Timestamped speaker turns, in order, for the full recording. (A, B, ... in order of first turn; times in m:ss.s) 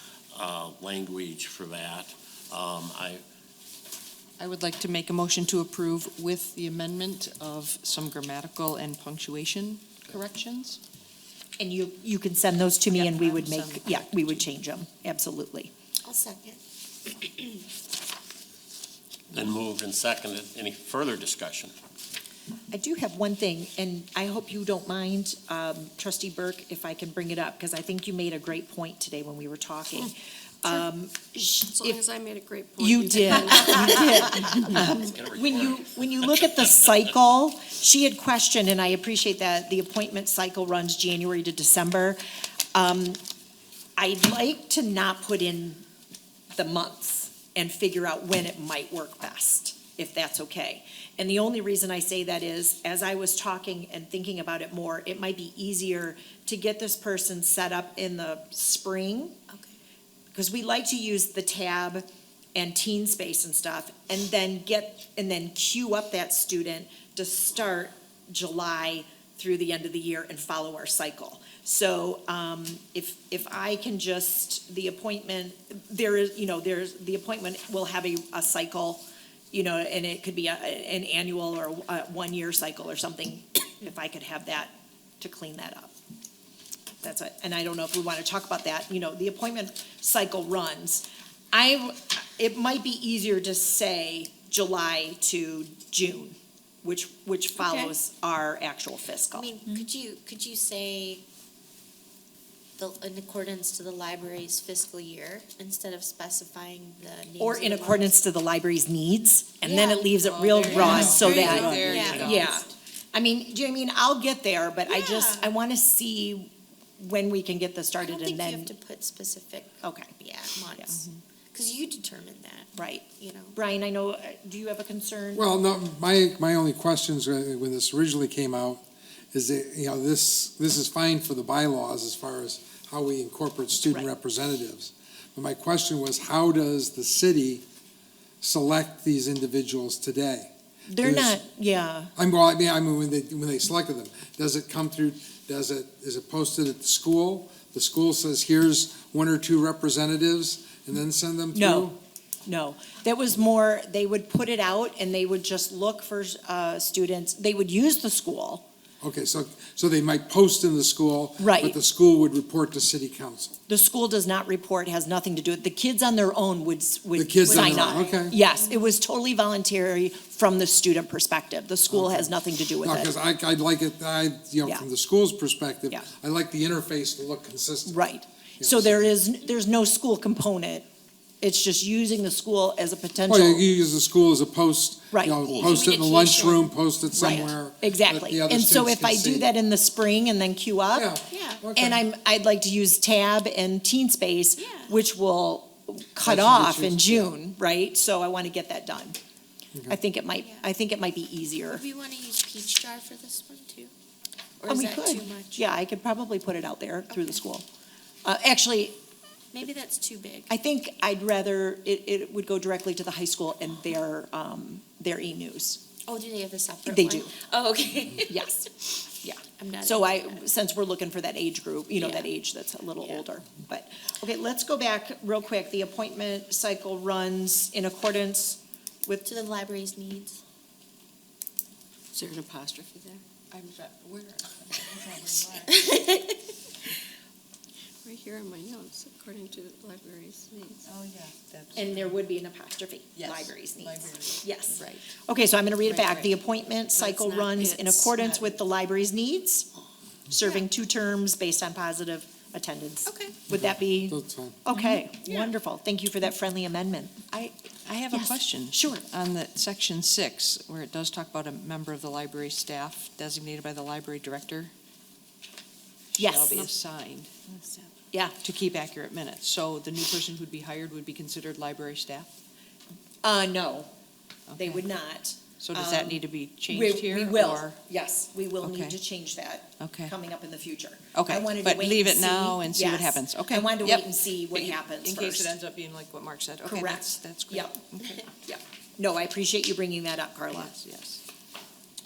0:00.3-0:03.2 A
0:04.4-0:10.8 B
0:11.6-0:15.7 C
0:12.9-0:14.5 B
0:16.0-0:16.6 D
0:17.2-0:17.6 D
0:19.3-0:21.7 A
0:22.7-0:32.0 C
0:31.7-0:34.9 E
0:32.8-0:42.2 C
0:34.6-0:37.0 A
0:42.7-0:43.2 C
0:44.0-0:45.8 C
0:46.6-0:59.4 C
0:59.5-0:59.8 D
1:00.3-1:25.9 C
1:27.0-1:39.5 C
1:37.6-1:37.9 D
1:39.3-1:41.2 D
1:42.8-1:48.2 D
1:47.4-1:58.7 C
1:49.6-1:52.7 D
1:50.2-1:52.6 B
1:54.8-1:55.5 D
1:58.0-2:01.0 D
1:59.8-2:00.1 C
2:00.7-2:01.0 C
2:01.5-2:03.6 D
2:02.8-2:05.4 C
2:05.4-2:08.8 F
2:09.3-2:17.6 F
2:18.4-2:20.5 F
2:20.9-2:22.1 C
2:21.0-2:21.4 F
2:22.2-2:32.0 F
2:31.5-2:31.9 C
2:32.5-2:38.6 C
2:39.0-2:43.6 F
2:41.4-2:41.8 C
2:43.7-2:53.1 C
2:47.2-2:48.4 F
2:47.5-2:48.3 D
2:51.9-2:58.1 F
2:57.9-3:00.9 C
2:58.6-2:59.1 F
3:01.4-3:03.6 C
3:03.3-3:09.5 F
3:05.1-3:05.7 C
3:05.4-3:05.9 A
3:06.0-3:06.6 D
3:07.1-3:11.2 C
3:10.9-3:12.0 F
3:11.3-3:11.7 D
3:11.8-3:19.2 C
3:14.6-3:15.0 D
3:16.2-3:17.4 F
3:19.9-3:21.8 C
3:20.3-3:20.7 D
3:21.7-3:23.9 D
3:24.6-3:25.7 D
3:24.7-3:27.7 C
3:27.1-3:27.4 D
3:28.2-3:29.0 C
3:29.5-3:30.5 D
3:30.5-3:35.9 C
3:36.0-3:38.9 D
3:36.8-3:37.3 C
3:38.3-3:49.3 C
3:39.5-3:40.4 D
3:42.0-3:42.3 D
3:43.0-3:43.2 D
3:49.2-3:50.4 D
3:52.2-3:52.9 B
3:52.2-3:53.2 D
3:53.5-3:55.8 B
3:55.7-3:56.4 D
3:58.0-4:00.8 E
4:00.8-4:02.2 B
4:01.8-4:09.7 C
4:03.2-4:05.1 B
4:05.8-4:06.3 B
4:07.0-4:08.4 E
4:10.3-4:17.2 C
4:13.5-4:14.6 F
4:14.7-4:15.1 B
4:17.3-4:24.7 B
4:18.1-4:19.0 C
4:26.2-4:27.9 B
4:26.2-4:26.7 C
4:28.1-4:28.4 C
4:28.4-4:32.3 B
4:33.2-4:33.9 C
4:34.5-4:34.8 B
4:34.6-4:45.5 C
4:35.6-4:37.8 B
4:38.6-4:39.0 B
4:39.8-4:40.1 B
4:41.1-4:48.2 B
4:46.6-4:47.8 C
4:48.4-4:50.7 C
4:50.5-4:51.2 B